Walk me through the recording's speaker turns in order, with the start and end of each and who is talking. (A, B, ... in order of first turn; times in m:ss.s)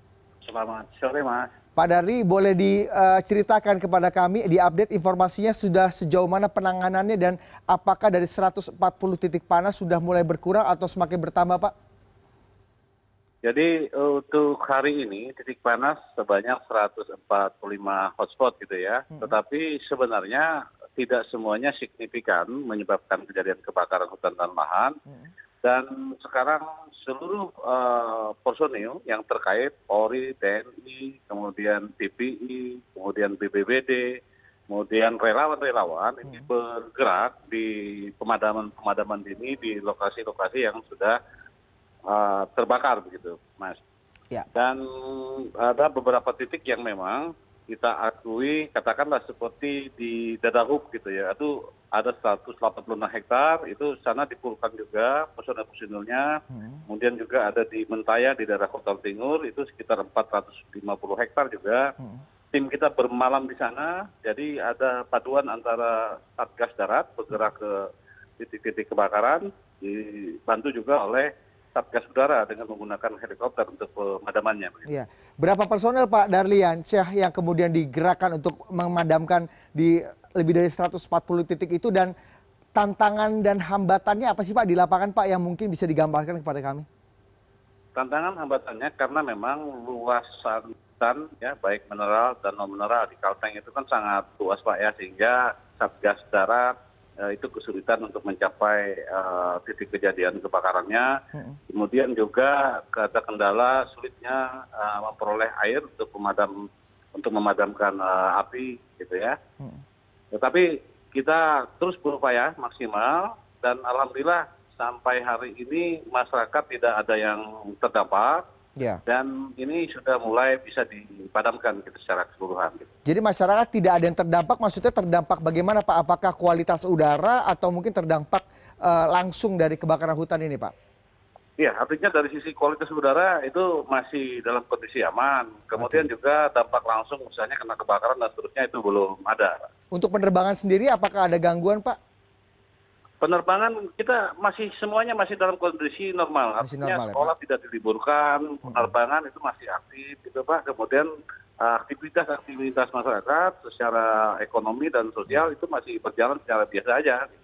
0:00.4-0:01.5 A
0:01.8-0:11.7 B
0:13.4-0:25.0 A
0:25.6-0:34.0 A
0:34.7-0:41.2 A
0:42.1-0:43.8 A
0:44.5-0:56.3 A
0:56.5-0:56.8 B
0:56.9-1:01.8 A
1:02.5-1:07.8 A
1:08.4-1:14.9 A
1:14.9-1:22.1 B
1:22.8-1:26.8 B
1:28.0-1:36.7 A
1:37.2-1:41.1 A
1:41.7-1:46.5 A
1:47.2-1:49.3 A
1:50.4-1:50.6 A
1:51.1-1:58.4 A
1:59.1-2:02.9 A
2:03.1-2:10.7 B
2:11.6-2:19.6 A
2:15.8-2:16.1 B
2:19.9-2:22.0 B
2:23.2-2:31.1 A
2:26.6-2:27.3 B
2:28.6-2:28.9 B
2:31.6-2:37.3 A